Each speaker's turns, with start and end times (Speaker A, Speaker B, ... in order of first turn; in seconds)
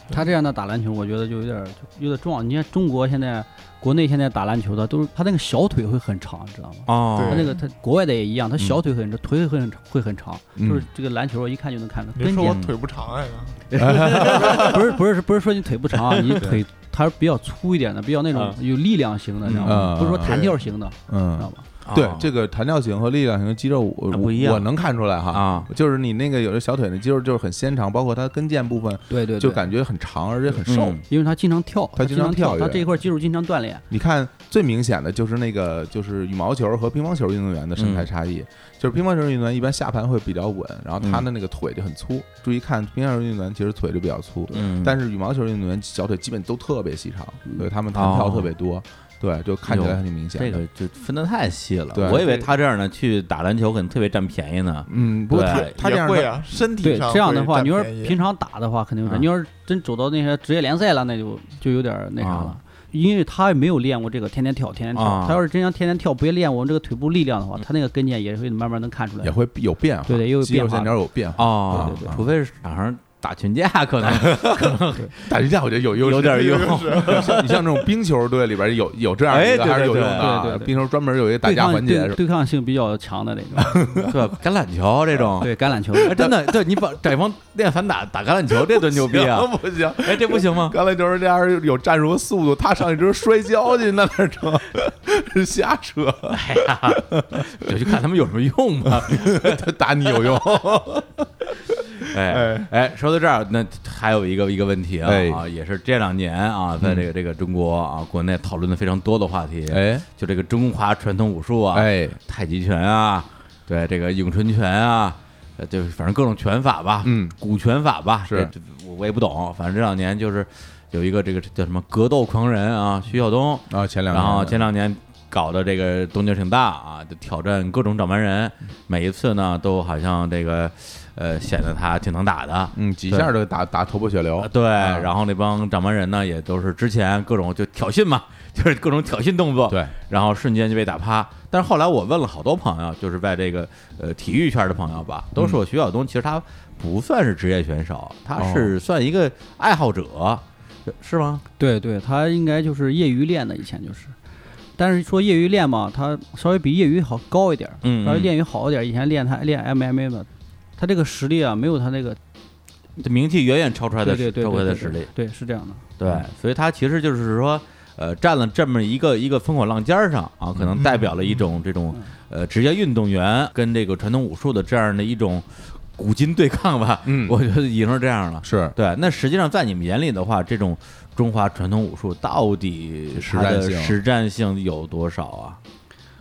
Speaker A: 0.1-12.6, 14.1-21.6, 29.1-29.7, 30.5-33.8, 52.1-52.4, 56.8-69.3, 70.0-71.0, 71.7-72.2, 80.2-80.8, 81.4-83.8, 85.4-86.1, 151.6-154.1, 154.8-160.3, 160.8-162.2, 164.0-165.8
Speaker B: 6.9-7.5, 12.4-12.7, 13.7-14.8, 16.1-16.5, 19.4-19.9, 21.9-22.3, 24.1-24.6, 25.3-25.7, 30.7-31.0, 37.8-38.1, 41.0-41.2, 44.5-45.0, 47.9-48.5, 49.6-55.7, 62.2-62.5, 64.9-65.4, 71.4-75.3, 76.0-77.8, 79.3-80.3, 84.1-90.8, 96.3-100.7, 102.1-133.3, 134.4-151.4, 157.8-158.3, 163.0-165.1, 166.0-185.6
Speaker C: 7.1-7.6, 12.1-13.6, 55.4-58.2, 76.4-77.4
Speaker D: 10.6-10.9, 13.8-14.7, 19.6-20.5, 21.1-31.0, 31.9-33.0, 33.9-50.6, 51.9-52.4, 54.9-56.4, 69.2-72.3, 74.0-82.2, 83.5-84.2, 85.1-85.5, 86.0-86.5, 88.5-97.9, 98.8-101.2, 102.3-102.7, 105.0-105.4, 106.8-107.1, 109.7-110.0, 111.7-112.2, 117.0-117.3, 118.2-118.5, 123.7-124.6, 132.7-135.1, 139.7-139.9, 145.3-145.6, 148.4-148.8, 170.5-171.1, 177.0-177.4, 178.4-178.7, 183.1-184.0